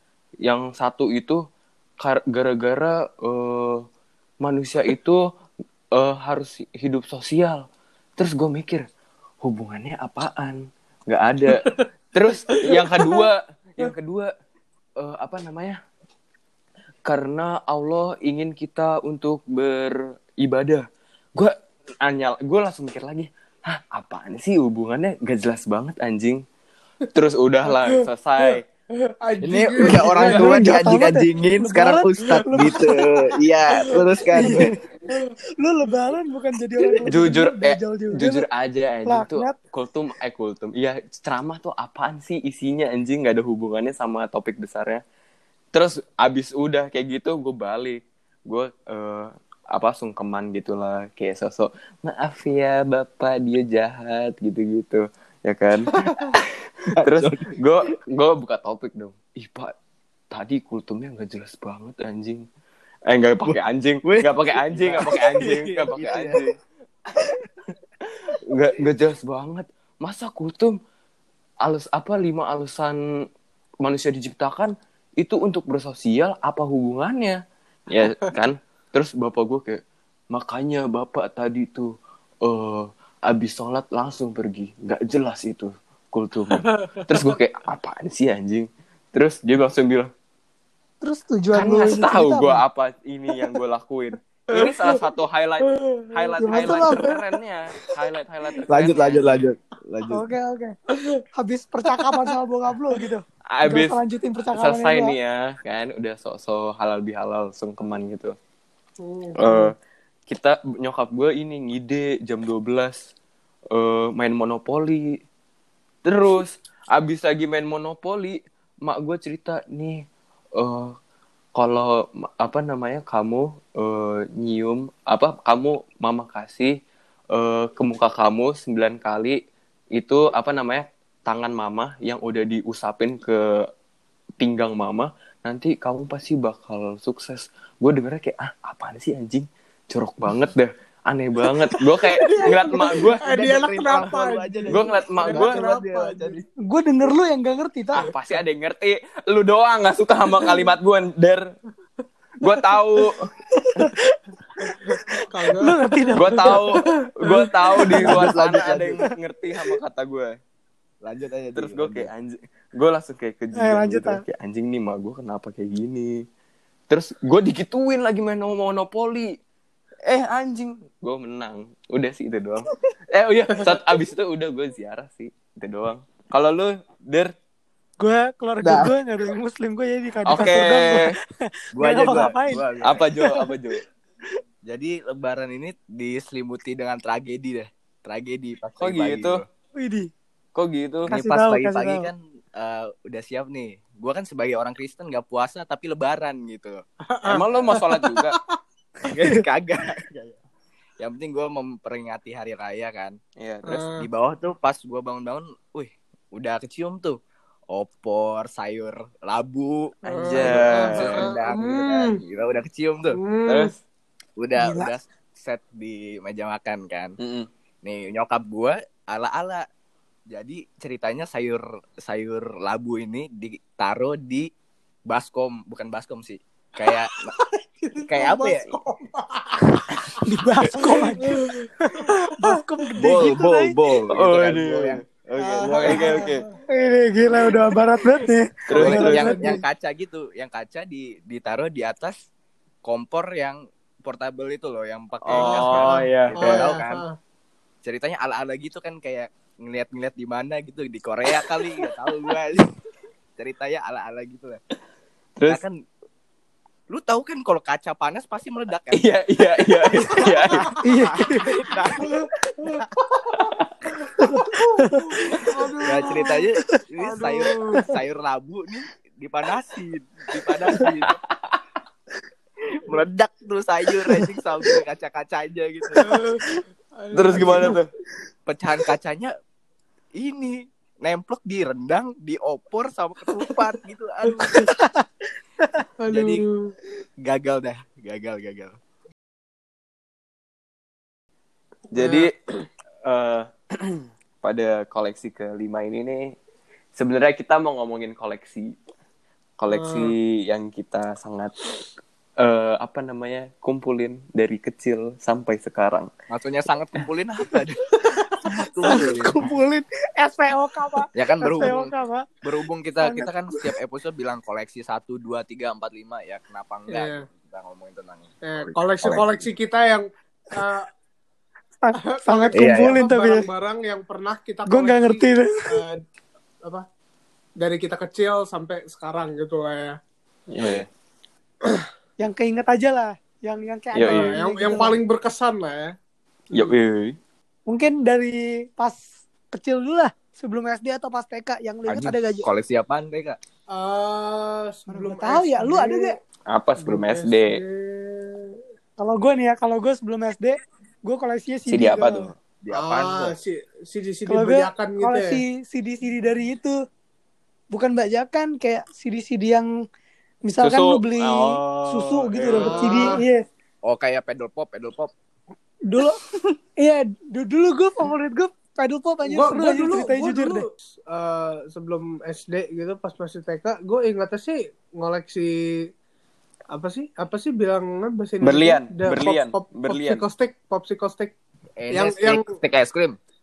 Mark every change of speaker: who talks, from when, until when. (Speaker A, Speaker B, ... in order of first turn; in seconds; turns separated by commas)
Speaker A: 0.4-1.4, Speaker A: 2.0-3.9, Speaker A: 4.4-5.2, Speaker A: 6.0-7.7, Speaker A: 8.2-8.8, Speaker A: 9.4-14.3, Speaker B: 11.5-11.8, Speaker B: 12.5-13.3, Speaker A: 15.0-15.8, Speaker A: 17.1-20.9, Speaker A: 21.4-26.4, Speaker A: 27.1-28.6, Speaker B: 27.6-30.7, Speaker C: 29.4-34.7, Speaker D: 30.2-32.9, Speaker B: 32.4-32.8, Speaker B: 33.8-35.3, Speaker D: 34.4-38.5, Speaker A: 37.1-45.0, Speaker D: 39.1-39.5, Speaker A: 45.7-55.9, Speaker C: 56.9-57.6, Speaker A: 57.0-59.7, Speaker A: 60.3-62.5, Speaker A: 63.1-66.6, Speaker C: 63.5-66.4, Speaker A: 68.3-70.8, Speaker A: 71.6-73.0, Speaker A: 73.8-90.1, Speaker B: 86.5-87.4, Speaker D: 91.0-92.6, Speaker A: 91.5-99.4, Speaker B: 94.5-94.9, Speaker B: 95.6-97.2, Speaker D: 96.4-97.1, Speaker C: 98.7-100.2, Speaker D: 100.1-100.8, Speaker D: 101.4-105.2, Speaker B: 101.9-102.3, Speaker A: 103.5-104.0, Speaker A: 104.6-108.3, Speaker B: 109.0-109.7, Speaker A: 109.4-109.7, Speaker A: 110.3-113.0, Speaker A: 113.7-115.2, Speaker A: 116.0-120.0, Speaker A: 120.6-121.0, Speaker A: 121.6-126.8, Speaker A: 127.3-129.4, Speaker A: 130.0-133.7, Speaker A: 134.4-143.3, Speaker B: 142.0-146.4, Speaker C: 143.2-146.4, Speaker A: 144.7-145.6, Speaker D: 146.7-148.1, Speaker A: 148.0-151.4, Speaker A: 152.4-153.2, Speaker D: 153.5-156.7, Speaker B: 155.3-155.8, Speaker A: 156.2-160.3, Speaker B: 156.5-158.0, Speaker C: 158.0-159.0, Speaker C: 161.0-162.1, Speaker A: 161.6-166.2, Speaker D: 163.6-164.2, Speaker A: 166.9-169.3, Speaker A: 170.1-177.3, Speaker D: 178.0-181.2, Speaker C: 178.6-178.9, Speaker A: 180.3-181.1, Speaker C: 181.8-183.1, Speaker D: 181.8-182.7, Speaker A: 182.8-183.8, Speaker D: 183.2-183.4, Speaker C: 184.7-189.5, Speaker A: 188.8-189.4, Speaker D: 189.8-190.1, Speaker A: 190.6-191.1, Speaker D: 191.1-192.1, Speaker C: 191.1-196.8, Speaker B: 197.1-198.6, Speaker A: 197.3-198.4, Speaker C: 199.0-200.4, Speaker C: 201.0-203.2, Speaker A: 203.4-203.9, Speaker B: 203.7-204.1, Speaker C: 204.0-207.2, Speaker C: 207.7-213.2, Speaker B: 210.1-212.2, Speaker A: 210.2-211.3, Speaker B: 213.1-213.7, Speaker A: 213.5-213.8, Speaker C: 214.4-217.2, Speaker D: 214.6-214.9, Speaker A: 217.2-217.5, Speaker C: 217.8-219.7, Speaker C: 220.3-224.5, Speaker C: 225.1-227.3, Speaker B: 227.4-230.1, Speaker C: 228.1-228.7, Speaker D: 230.1-231.4, Speaker B: 230.8-232.5, Speaker D: 232.0-233.8, Speaker C: 233.0-235.2, Speaker A: 234.1-236.4, Speaker B: 235.4-236.6, Speaker C: 235.8-236.0, Speaker D: 236.7-239.6, Speaker A: 238.7-239.4, Speaker C: 238.8-242.2, Speaker B: 238.8-239.6, Speaker C: 242.8-247.0, Speaker A: 245.3-246.7, Speaker B: 245.3-247.2, Speaker C: 247.8-252.7, Speaker C: 253.4-254.6, Speaker A: 255.4-255.6, Speaker C: 255.5-255.8, Speaker C: 256.9-259.1, Speaker A: 258.9-260.7, Speaker C: 260.1-262.1, Speaker D: 260.8-261.6, Speaker B: 262.0-263.5, Speaker A: 263.4-263.7, Speaker D: 264.2-265.2, Speaker B: 264.4-266.4, Speaker C: 265.9-271.2, Speaker D: 266.1-266.4, Speaker B: 267.0-267.9, Speaker C: 272.7-276.2, Speaker B: 276.0-277.8, Speaker A: 277.1-277.9, Speaker C: 278.5-279.3, Speaker C: 280.2-284.7, Speaker B: 284.4-284.7, Speaker D: 284.7-285.1, Speaker B: 286.0-286.8, Speaker C: 286.1-286.4, Speaker C: 287.2-288.8, Speaker A: 291.9-292.3, Speaker B: 291.9-292.3, Speaker A: 293.1-296.3, Speaker A: 297.0-298.7, Speaker A: 299.6-301.7, Speaker B: 299.7-300.1, Speaker A: 302.4-306.1, Speaker C: 306.3-309.4, Speaker D: 308.8-312.3, Speaker C: 311.1-319.5, Speaker D: 313.0-313.7, Speaker B: 316.9-317.2, Speaker B: 318.5-320.9, Speaker D: 321.8-323.5, Speaker B: 322.0-326.0, Speaker C: 322.5-323.0, Speaker D: 324.7-325.5, Speaker B: 327.6-330.0, Speaker A: 330.5-330.9, Speaker D: 332.2-335.0, Speaker A: 333.9-334.3, Speaker B: 334.1-335.9, Speaker A: 336.5-337.2, Speaker D: 337.7-339.0, Speaker D: 339.5-342.5, Speaker C: 341.9-343.4, Speaker B: 343.7-346.2, Speaker D: 344.9-346.2, Speaker A: 346.5-347.6, Speaker B: 346.8-348.6, Speaker D: 349.0-352.3, Speaker A: 351.7-352.3, Speaker C: 352.6-353.3, Speaker B: 352.7-355.4, Speaker D: 354.3-356.8, Speaker D: 357.7-359.7, Speaker D: 360.4-363.5, Speaker A: 360.6-363.2, Speaker B: 362.5-363.2, Speaker C: 363.8-365.1, Speaker D: 365.9-366.2, Speaker D: 366.8-370.6, Speaker B: 369.2-375.9, Speaker B: 376.7-381.3, Speaker A: 378.4-380.2, Speaker C: 381.8-383.2, Speaker B: 381.9-382.5